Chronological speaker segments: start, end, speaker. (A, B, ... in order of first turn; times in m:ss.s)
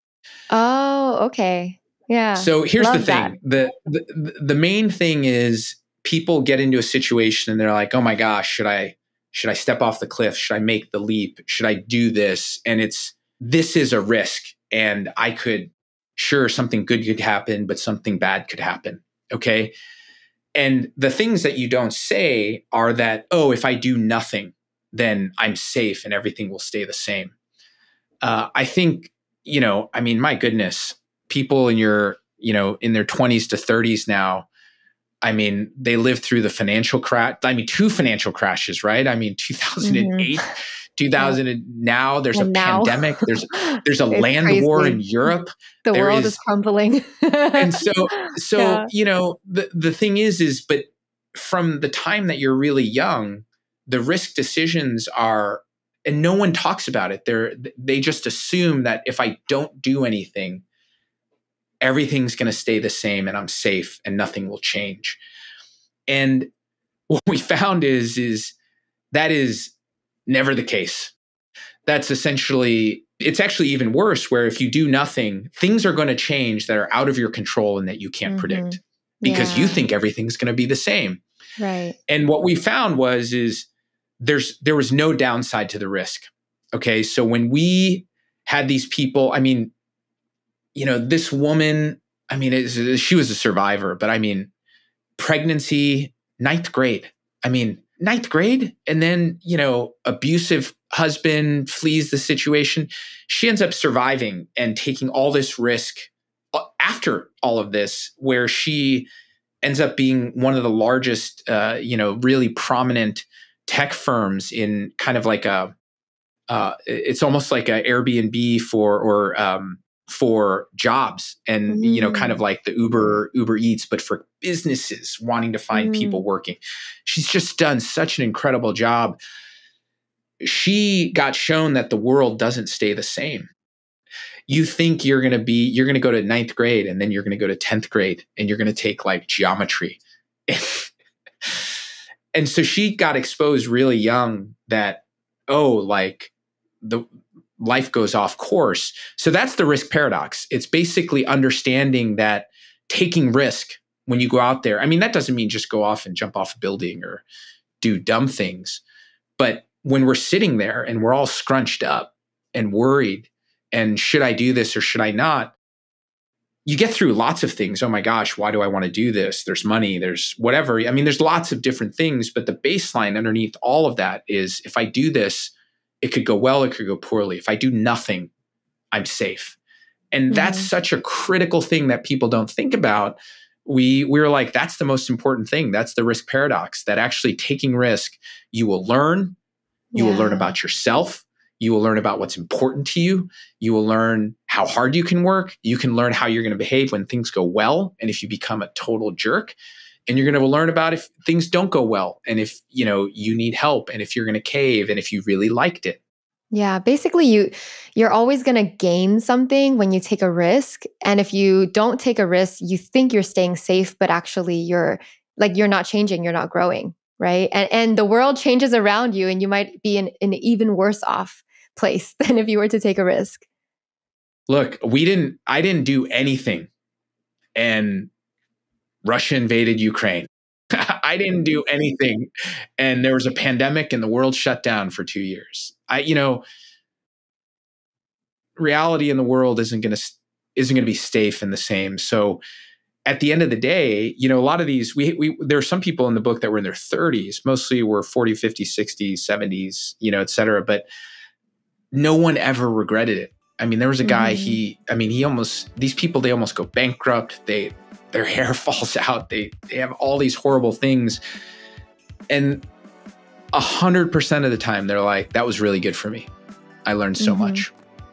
0:00.5-0:03.3 A
0:02.3-0:19.7 B
0:20.6-0:27.3 B
0:28.2-0:34.5 B
0:35.2-0:46.4 B
0:39.8-0:40.5 A
0:42.3-0:45.1 A
0:45.8-0:48.9 A
0:47.6-1:00.6 B
1:01.8-1:05.2 B
1:06.1-1:06.5 B
1:07.1-1:08.5 B
1:09.1-1:09.7 B
1:10.3-1:11.1 B
1:11.8-1:21.2 B
1:18.3-1:19.8 A
1:21.6-1:22.0 A
1:22.1-1:23.7 B
1:24.2-1:29.7 B
1:30.7-1:34.5 B
1:35.2-1:49.1 B
1:49.6-1:55.7 B
1:56.5-2:09.2 B
2:01.7-2:02.4 A
2:05.7-2:06.2 A
2:10.4-2:13.5 B
2:14.5-2:20.9 B
2:22.3-2:27.0 B
2:27.6-2:37.2 B
2:37.8-2:38.8 B
2:39.4-2:45.6 B
2:46.6-2:58.3 B
2:58.9-2:59.6 B
3:00.1-3:09.4 B
3:00.3-3:00.7 A
3:09.9-3:10.5 A
3:10.0-3:19.6 B
3:20.1-3:26.0 B
3:26.5-3:43.4 A
3:44.5-3:46.7 B
3:47.5-3:48.1 B
3:49.0-3:52.3 B
3:52.8-3:56.4 B
3:58.6-4:02.4 B
4:03.0-4:10.9 B
4:11.9-4:21.2 B
4:14.0-4:14.6 A
4:22.3-4:22.6 B
4:23.5-4:26.3 B
4:26.8-4:27.7 B
4:27.2-4:27.6 A